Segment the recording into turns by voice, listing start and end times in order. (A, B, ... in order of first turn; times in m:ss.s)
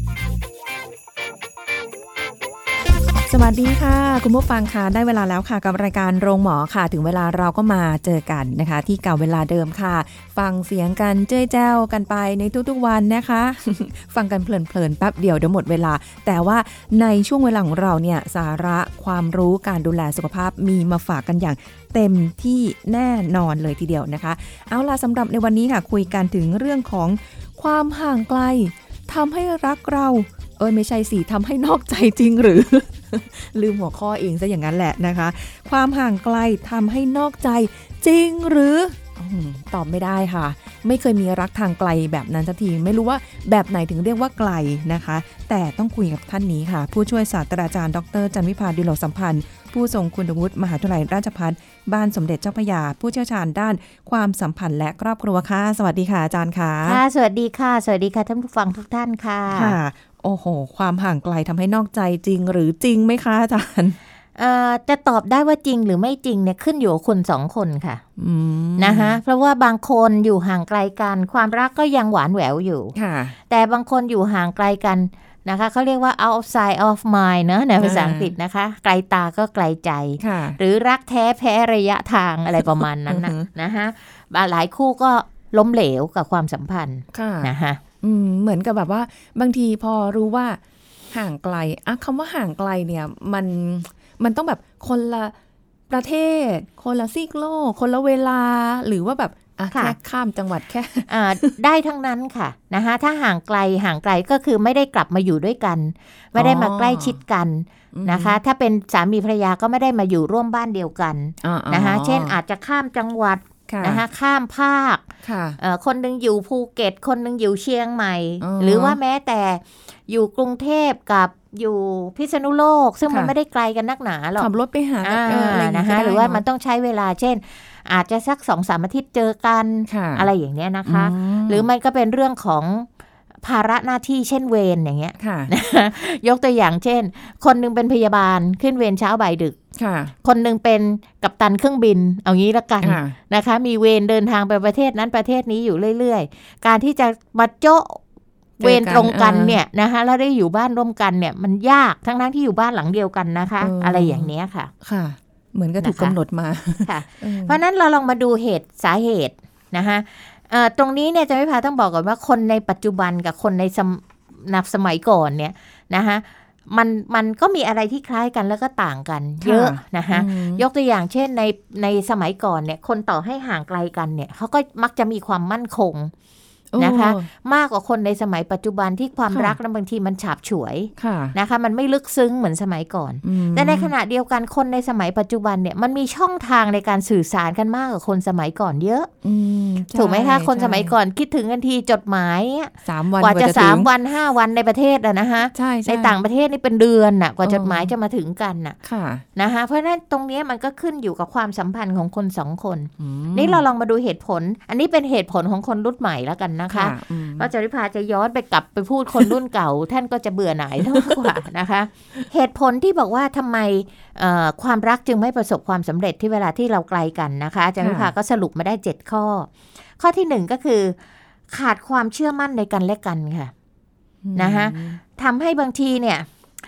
0:03.3-0:57.0 A
0:56.8-0:59.8 B
0:59.5-1:04.0 A
1:04.4-1:08.0 B
1:08.2-1:09.2 A
1:08.8-1:12.9 B
1:12.9-1:13.4 A
1:13.5-1:27.8 B
1:17.8-1:18.3 A
1:20.2-1:20.6 A
1:22.6-1:23.4 A
1:27.1-1:30.6 A
1:31.1-1:35.3 A
1:35.9-1:41.5 A
1:41.1-1:55.1 B
1:46.3-1:47.2 A
1:47.9-1:48.4 A
1:51.4-1:52.4 A
1:53.7-1:54.0 A
1:55.2-1:55.6 A
1:55.6-2:04.5 B
1:58.4-1:59.0 A
2:03.1-2:03.3 A
2:04.4-2:06.4 A
2:05.0-2:12.9 B
2:09.9-2:10.3 A
2:10.8-2:11.7 A
2:13.4-2:19.6 B
2:15.2-2:15.5 A
2:19.8-2:20.1 A
2:20.2-2:28.0 B
2:22.8-2:23.2 A
2:28.6-2:29.6 A
2:28.6-2:34.7 B
2:33.6-2:34.3 A
2:34.8-2:37.6 A
2:35.8-2:36.2 B
2:36.8-2:56.1 B
2:49.4-2:50.6 A
2:56.7-2:57.3 A
2:56.8-3:09.1 B
2:59.3-2:59.6 A
3:01.0-3:01.3 A
3:03.2-3:03.9 A
3:09.2-3:10.9 A
3:09.9-3:18.8 B
3:12.8-3:13.9 A
3:15.5-3:16.2 A
3:17.4-3:17.9 A
3:18.8-3:19.2 A
3:19.4-3:41.0 B
3:23.0-3:23.6 A
3:26.7-3:27.5 A
3:37.8-3:38.1 A
3:41.5-3:43.5 B
3:44.2-3:45.0 A
3:44.3-3:46.3 B